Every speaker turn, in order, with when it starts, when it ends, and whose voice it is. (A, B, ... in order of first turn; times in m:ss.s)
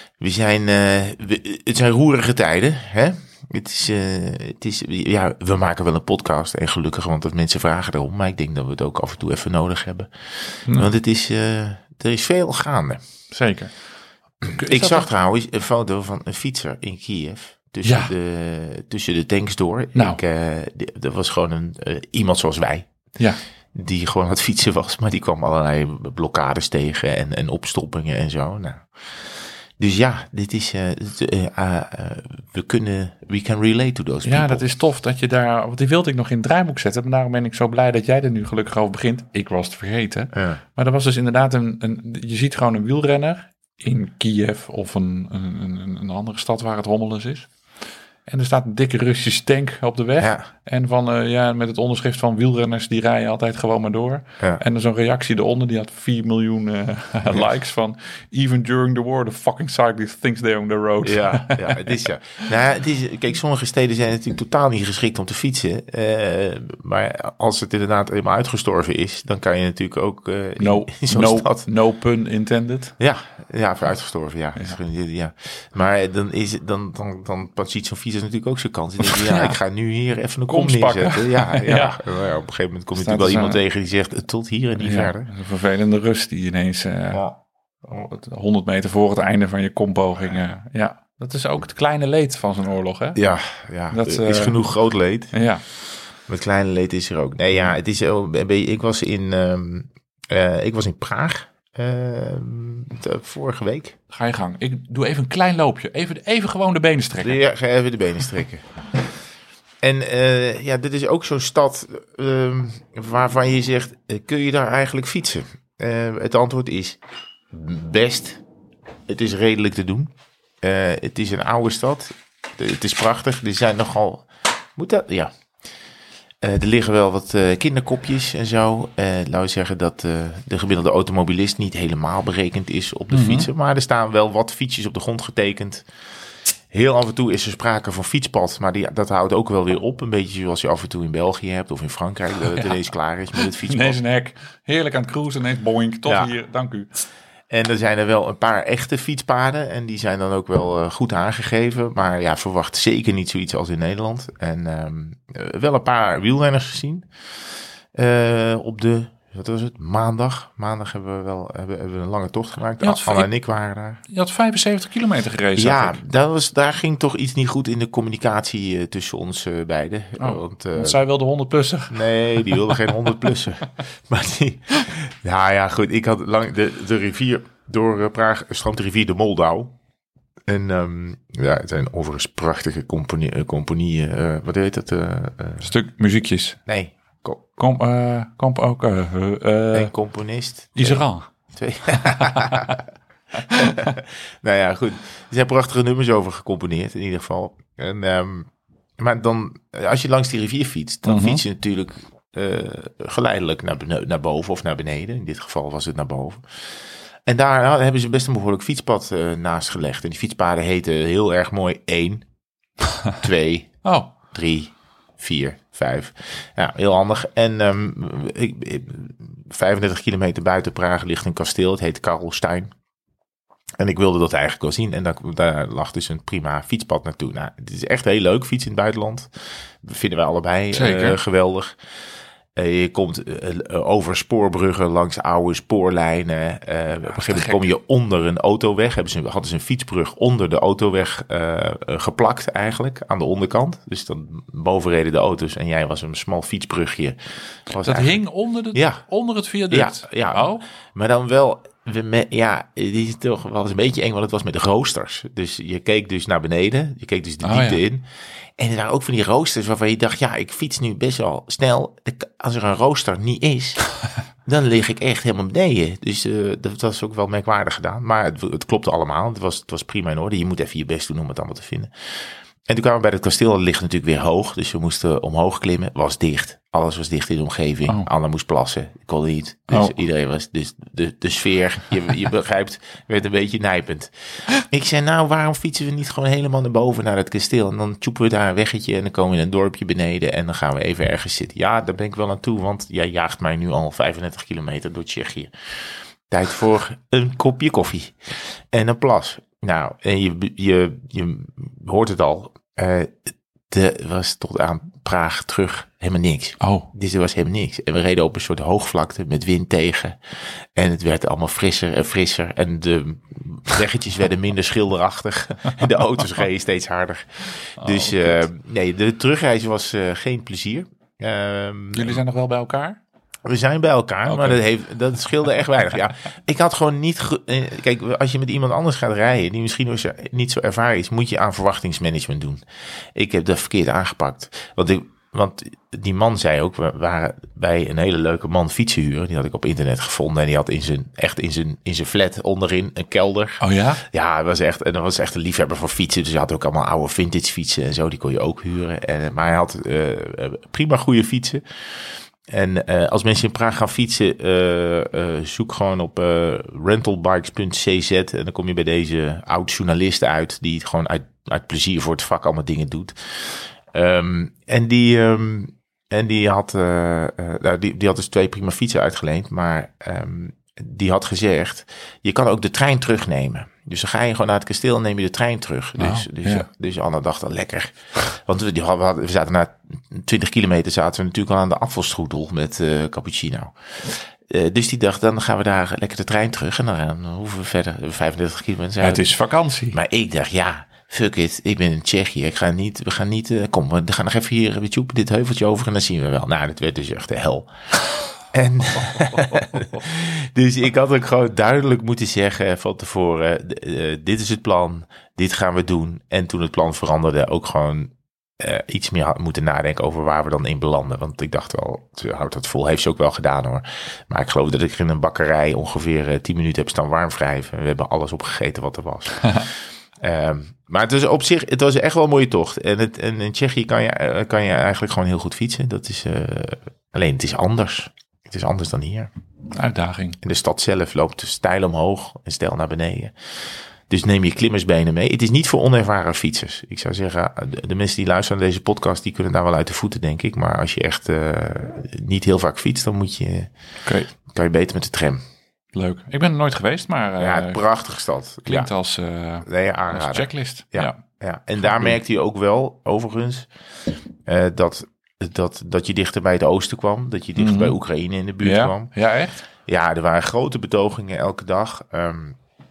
0:00.2-0:13.0 A
0:13.3-0:13.7 B
0:14.4-0:22.9 A
0:14.5-0:15.1 B
0:17.8-0:18.1 B
0:20.0-0:20.2 B
0:23.7-0:34.6 A
0:34.2-0:47.5 B
0:40.3-0:40.6 A
0:48.3-1:02.0 B
0:50.2-0:50.5 A
1:01.0-1:11.7 A
1:10.6-1:13.0 B
1:13.0-1:25.3 A
1:19.0-1:19.6 B
1:20.5-1:22.0 B
1:23.0-1:23.6 B
1:24.8-1:33.2 B
1:33.2-1:35.3 A
1:33.9-1:34.6 B
1:35.3-1:35.6 B
1:36.3-1:44.0 A
1:44.1-1:47.4 B
1:47.2-1:48.6 A
1:49.8-1:57.0 A
1:57.5-1:58.4 A
1:59.1-2:05.3 A
2:06.4-2:15.9 A
2:13.1-2:13.5 B
2:16.7-2:24.0 A
2:23.4-2:26.9 B
2:26.1-2:26.3 A
2:27.5-2:37.1 A
2:37.9-2:44.0 A
2:42.8-2:43.3 B
2:44.1-2:46.0 B
2:45.6-2:51.0 A
2:50.2-2:52.9 B
2:51.9-2:59.8 A
3:00.5-3:05.7 A
3:05.6-3:06.6 B
3:06.7-3:07.4 A
3:07.6-3:09.9 B
3:09.7-3:12.8 A
3:10.8-3:11.3 B
3:11.9-3:12.8 B
3:13.4-3:14.0 B
3:13.4-3:26.4 A
3:21.1-3:21.4 B
3:27.3-3:32.2 A
3:33.2-3:33.8 A
3:33.8-3:34.1 B
3:34.3-3:42.7 A
3:43.8-3:49.3 A
3:49.8-3:51.8 A
3:50.7-3:51.2 B
3:52.6-4:08.2 A
3:57.1-3:57.6 B
4:07.8-4:10.6 B
4:08.7-4:09.0 A
4:09.7-4:18.1 A
4:17.4-4:17.8 B
4:18.6-4:23.8 A
4:24.4-4:55.5 A
4:39.7-4:40.0 B
4:56.3-5:10.2 A
5:06.6-5:06.9 B
5:10.8-5:22.2 A
5:17.8-5:18.5 B
5:21.9-5:23.0 B
5:23.4-5:32.6 A
5:24.3-5:24.6 B
5:33.2-6:29.3 A
5:43.6-5:44.0 B
6:16.0-6:16.7 B
6:29.0-6:30.0 B
6:29.9-6:37.7 A
6:38.5-7:09.3 A
7:09.7-7:10.4 B
7:10.4-7:13.3 A
7:14.1-7:23.7 A
7:24.0-7:24.3 B
7:24.5-7:25.4 A
7:25.9-7:27.8 B
7:27.4-7:28.9 A
7:28.7-7:31.2 B
7:29.6-7:33.7 A
7:31.8-7:32.2 B
7:34.5-7:39.1 A
7:37.6-7:38.0 B
7:38.6-7:39.6 B
7:39.9-7:42.6 A